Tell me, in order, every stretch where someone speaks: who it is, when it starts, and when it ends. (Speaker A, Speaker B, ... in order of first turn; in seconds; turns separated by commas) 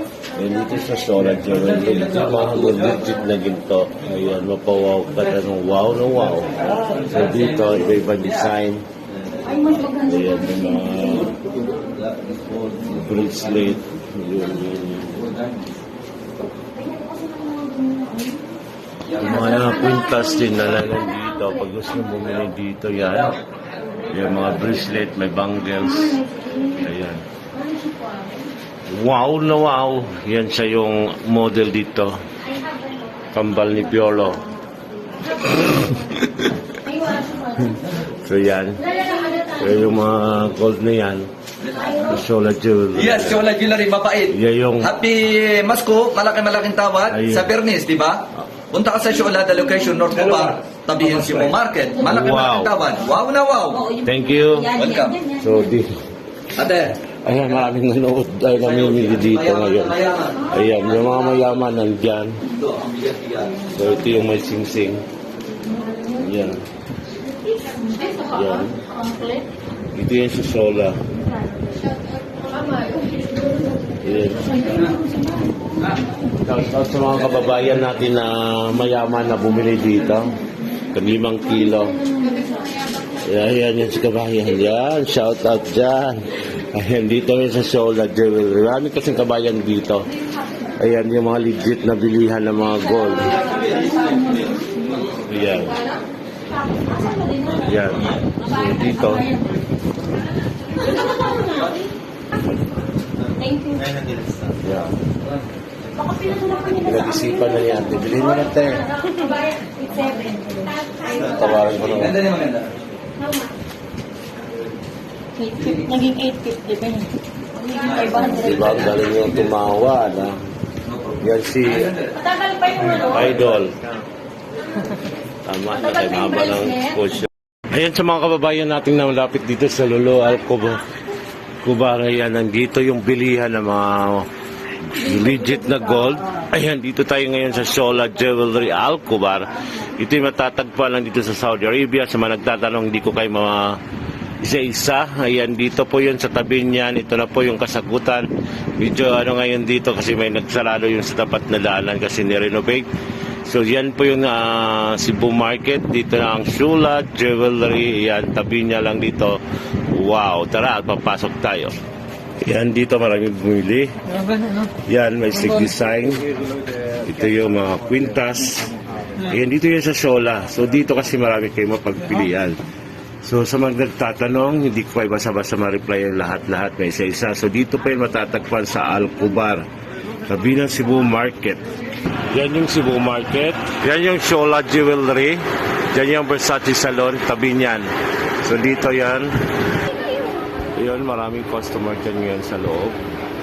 Speaker A: 0.3-8.9, Speaker B: 9.4-11.6, Speaker A: 10.1-11.4, Speaker A: 12.8-15.3, Speaker B: 16.8-18.4, Speaker A: 19.1-23.4, Speaker B: 19.1-21.6, Speaker A: 24.0-27.2, Speaker B: 26.0-26.8, Speaker B: 27.6-28.5, Speaker A: 28.9-32.2, Speaker B: 32.5-34.4, Speaker A: 33.3-34.4, Speaker B: 35.0-36.1, Speaker A: 35.6-36.5, Speaker B: 36.7-37.8, Speaker A: 38.1-38.9, Speaker B: 38.8-39.8, Speaker A: 39.5-41.3, Speaker B: 41.7-42.0, Speaker A: 41.9-43.5, Speaker C: 43.0-53.9, Speaker A: 44.3-45.0, Speaker A: 47.1-47.5, Speaker A: 52.0-52.9, Speaker B: 53.7-55.6, Speaker A: 54.0-54.8, Speaker C: 54.8-55.2, Speaker A: 55.3-55.9, Speaker C: 56.5-57.0, Speaker A: 57.2-62.4, Speaker C: 58.9-60.5, Speaker C: 62.6-63.5, Speaker A: 63.7-65.0, Speaker B: 65.7-66.2, Speaker A: 66.1-66.6, Speaker B: 67.5-69.5, Speaker A: 68.3-68.8, Speaker A: 69.9-71.0, Speaker B: 71.6-76.0, Speaker A: 74.0-74.8, Speaker A: 76.3-82.0, Speaker B: 81.7-83.1, Speaker A: 83.1-90.1, Speaker A: 90.6-93.7, Speaker B: 93.1-94.8, Speaker A: 95.1-95.8, Speaker B: 96.5-97.7, Speaker A: 97.6-99.3, Speaker B: 98.5-99.6, Speaker B: 100.7-101.9, Speaker B: 103.4-104.2, Speaker A: 104.5-105.0, Speaker B: 106.0-111.8, Speaker A: 106.8-108.9, Speaker A: 111.1-112.3, Speaker C: 112.2-112.7, Speaker B: 113.2-113.5, Speaker B: 115.4-119.0, Speaker A: 118.0-120.4, Speaker A: 121.2-122.0, Speaker B: 122.1-123.2, Speaker A: 123.0-123.8, Speaker A: 125.5-130.8, Speaker B: 125.8-127.0, Speaker A: 131.6-134.3, Speaker A: 134.8-143.8, Speaker A: 144.4-152.9, Speaker A: 153.4-159.4, Speaker A: 159.9-161.8, Speaker A: 162.4-166.3, Speaker A: 167.1-172.6, Speaker A: 173.2-179.7, Speaker A: 180.3-181.7, Speaker A: 182.2-187.9, Speaker A: 188.4-189.3, Speaker A: 190.8-193.0